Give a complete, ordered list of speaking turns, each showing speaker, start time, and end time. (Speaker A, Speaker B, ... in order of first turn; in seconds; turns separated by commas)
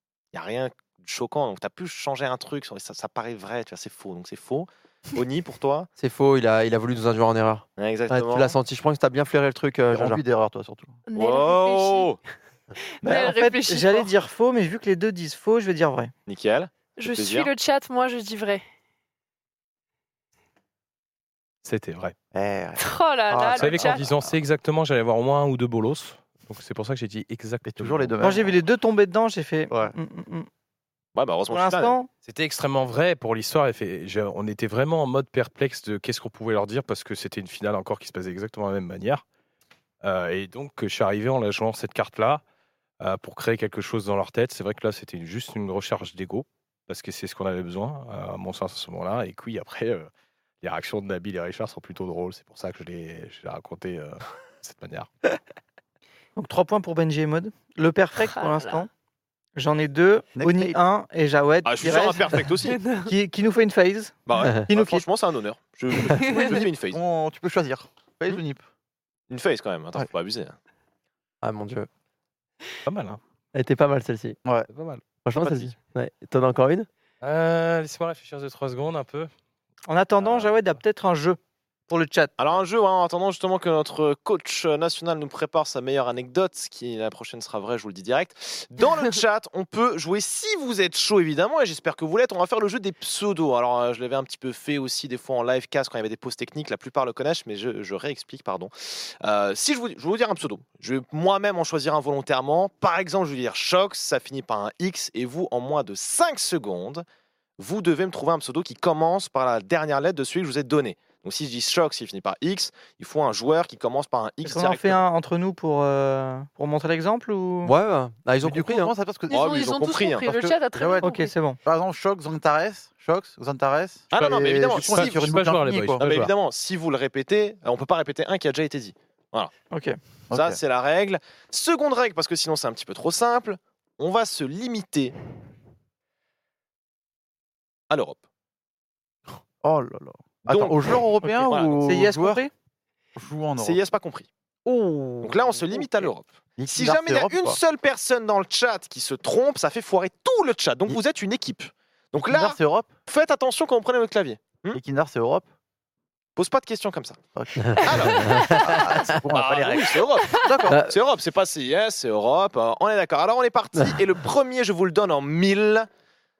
Speaker A: 0.3-5.9, Speaker B: 6.0-10.2, Speaker A: 7.8-8.5, Speaker C: 9.9-10.9, Speaker D: 11.1-12.1, Speaker A: 11.1-12.2, Speaker D: 13.0-14.1, Speaker E: 13.0-16.1, Speaker A: 16.3-17.5, Speaker D: 17.0-18.6, Speaker F: 21.6-22.1, Speaker C: 22.3-24.3, Speaker D: 22.8-24.1, Speaker F: 23.5-28.1, Speaker C: 27.6-28.6, Speaker E: 28.2-30.5, Speaker A: 31.1-31.9, Speaker E: 31.5-32.1, Speaker F: 32.2-39.2, Speaker F: 40.0-42.4, Speaker F: 43.0-50.1, Speaker F: 50.6-55.1, Speaker E: 56.4-58.9, Speaker D: 58.3-58.9, Speaker E: 59.5-64.2, Speaker C: 60.3-60.8, Speaker A: 61.6-62.8, Speaker D: 62.7-63.1, Speaker A: 64.2-67.0, Speaker E: 64.7-65.0, Speaker D: 66.1-66.6, Speaker C: 66.3-68.6, Speaker A: 69.3-70.5, Speaker B: 71.4-71.9, Speaker F: 72.8-73.2, Speaker B: 73.5-74.4, Speaker F: 74.7-75.7, Speaker B: 75.2-76.9, Speaker F: 77.2-79.3, Speaker E: 79.9-82.3, Speaker F: 80.2-80.8, Speaker A: 82.4-107.0, Speaker A: 107.6-115.0, Speaker E: 114.4-117.7, Speaker B: 117.6-118.9, Speaker C: 118.4-121.0, Speaker D: 119.3-121.3, Speaker A: 119.3-120.3, Speaker E: 121.0-121.6, Speaker C: 121.6-126.0, Speaker A: 124.1-125.2, Speaker F: 124.1-126.3, Speaker A: 126.0-129.5, Speaker E: 129.7-130.0, Speaker C: 130.3-130.6, Speaker A: 130.3-135.1, Speaker A: 137.9-138.2, Speaker C: 139.6-142.4, Speaker A: 140.5-140.8, Speaker E: 141.2-142.5, Speaker A: 141.5-141.8, Speaker C: 143.2-143.8, Speaker A: 143.6-144.3, Speaker A: 145.2-154.8, Speaker C: 146.6-147.6, Speaker C: 152.3-152.9, Speaker C: 154.7-155.4, Speaker A: 156.3-157.2, Speaker C: 157.3-160.8, Speaker B: 157.7-158.7, Speaker A: 157.8-165.9, Speaker B: 160.7-160.9